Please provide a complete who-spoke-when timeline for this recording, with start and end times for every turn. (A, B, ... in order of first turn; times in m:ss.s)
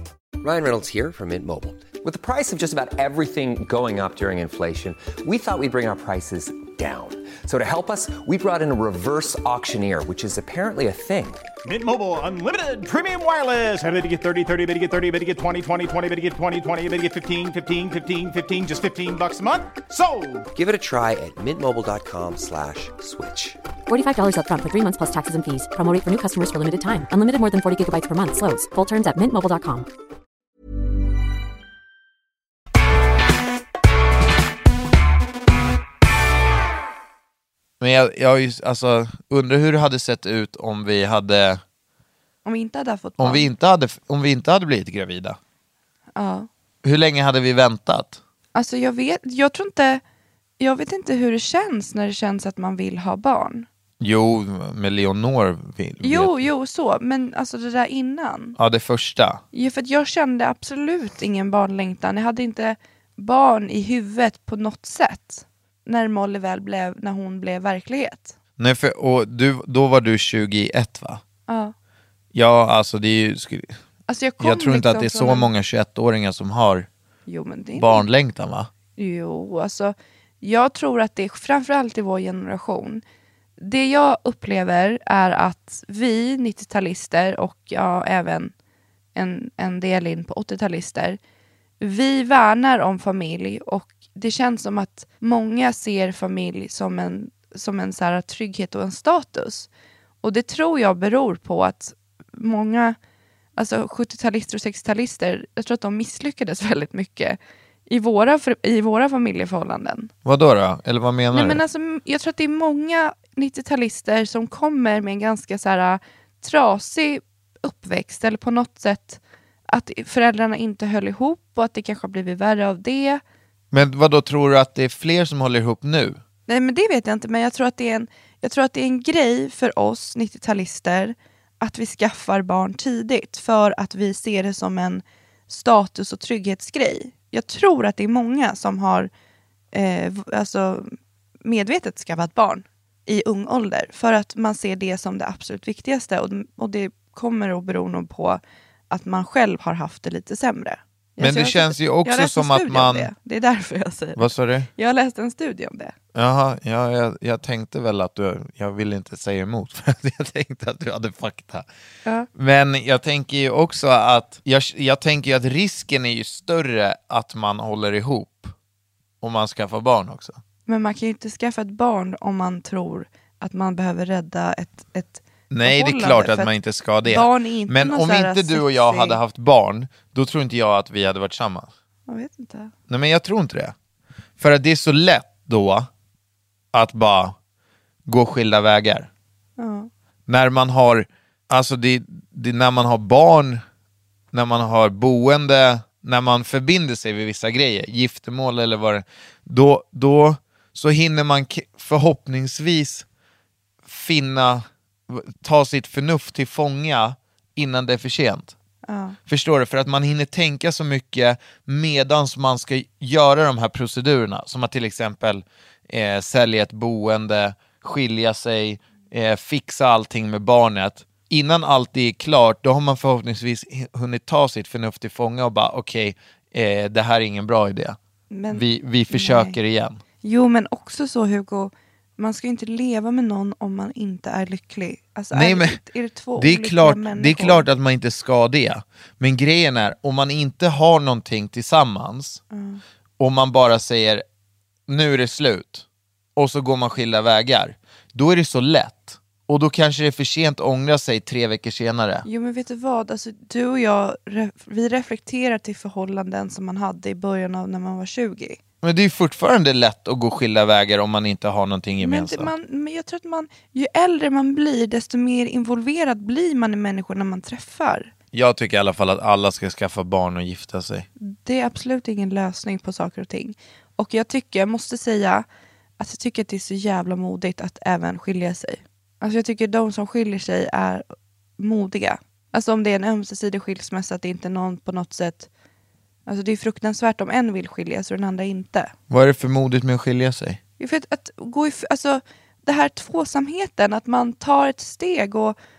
0:00.4-0:11.4 A
0:11.6-0:20.5 B
0:20.5-0:23.6 A
0:23.9-0:29.9 C
0:37.8-0:41.6 D
0:42.4-0:43.5 E
0:43.2-0:45.4 D
0:46.2-0:46.5 E
0:46.8-0:48.2 D
0:48.5-0:50.0 E
0:50.6-0:53.7 E
0:54.0-0:56.4 D
0:56.0-0:58.6 E
0:58.6-0:59.4 D
0:59.5-1:08.3 E
1:08.6-1:11.2 D
1:11.5-1:11.7 E
1:12.3-1:13.8 D
1:14.1-1:15.5 E
1:14.4-1:16.9 D
1:17.3-1:18.0 E
1:17.7-1:18.7 D
1:19.0-1:23.0 E
1:23.6-1:28.5 E
1:29.1-1:31.2 E
1:31.8-1:39.7 E
1:40.2-1:43.0 E
1:43.6-1:50.1 E
1:50.2-1:51.6 D
1:51.3-2:03.2 E
2:03.7-2:06.2 D
2:06.5-2:19.1 E
2:19.7-2:20.9 E
2:21.4-2:35.9 E
2:31.2-2:33.1 D
2:34.2-2:34.7 D
2:36.1-2:41.7 D
2:42.3-2:48.5 D
2:49.2-2:50.4 D
2:50.6-2:56.5 E
2:55.5-3:01.7 D
2:57.0-2:59.2 E
3:02.1-3:02.7 E
3:02.9-3:03.7 D
3:04.4-3:05.9 D
3:06.7-3:07.3 D
3:08.0-3:09.1 D
3:09.6-3:09.9 E
3:10.3-3:13.6 D
3:14.3-3:23.0 D
3:23.8-3:28.5 D
3:28.8-3:29.2 E
3:29.3-3:48.0 D
3:48.3-3:49.6 E
3:48.5-3:50.0 D
3:50.2-3:57.6 E
3:55.3-3:55.8 D
3:56.4-4:02.4 D
4:02.5-4:02.8 E
4:03.2-4:04.2 D
4:04.9-4:12.2 D
4:12.2-4:18.6 E
4:18.8-4:22.5 D
4:22.0-4:28.1 E
4:28.3-4:31.1 D
4:31.2-4:35.4 E
4:36.0-4:41.0 E
4:41.6-4:45.5 E
4:46.2-4:48.9 E
4:49.1-4:50.6 D
4:50.8-4:55.6 E